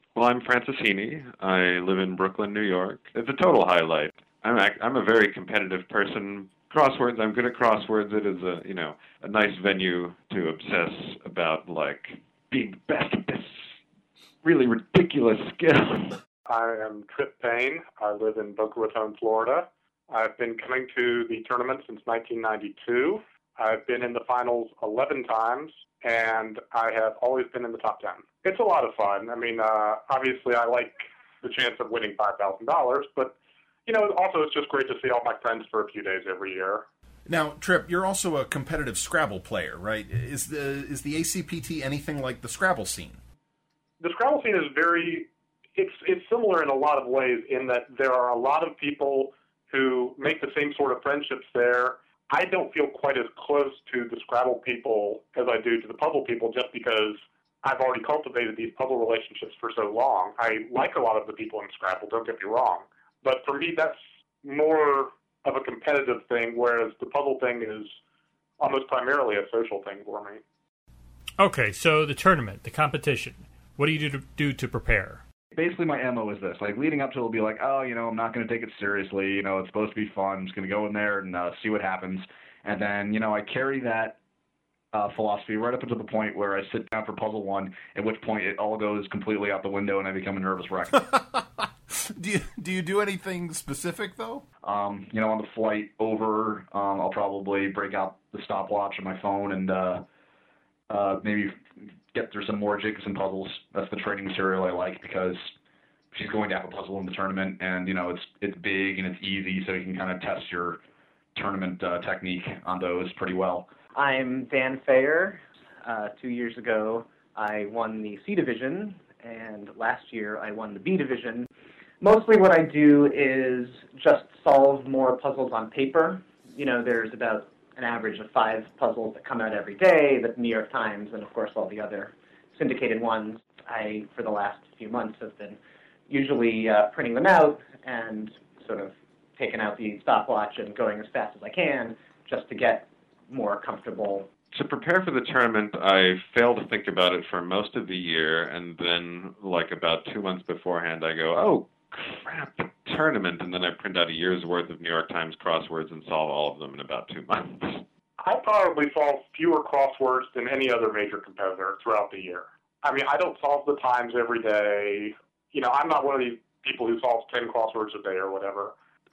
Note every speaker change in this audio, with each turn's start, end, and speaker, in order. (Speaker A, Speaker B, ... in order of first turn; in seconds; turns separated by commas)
Speaker A: 0.1-13.7, Speaker A: 14.4-16.2, Speaker B: 16.5-33.3, Speaker B: 33.9-36.8, Speaker C: 37.3-43.2, Speaker B: 44.0-68.0, Speaker B: 68.6-70.4, Speaker D: 71.4-75.2, Speaker E: 75.5-84.1, Speaker E: 84.9-91.1, Speaker C: 91.0-94.4, Speaker E: 94.6-100.0, Speaker E: 100.9-105.5, Speaker E: 106.1-110.8, Speaker E: 111.3-113.7, Speaker F: 114.0-121.5, Speaker F: 122.0-135.6, Speaker F: 136.1-144.3, Speaker A: 144.5-157.8, Speaker B: 158.2-168.7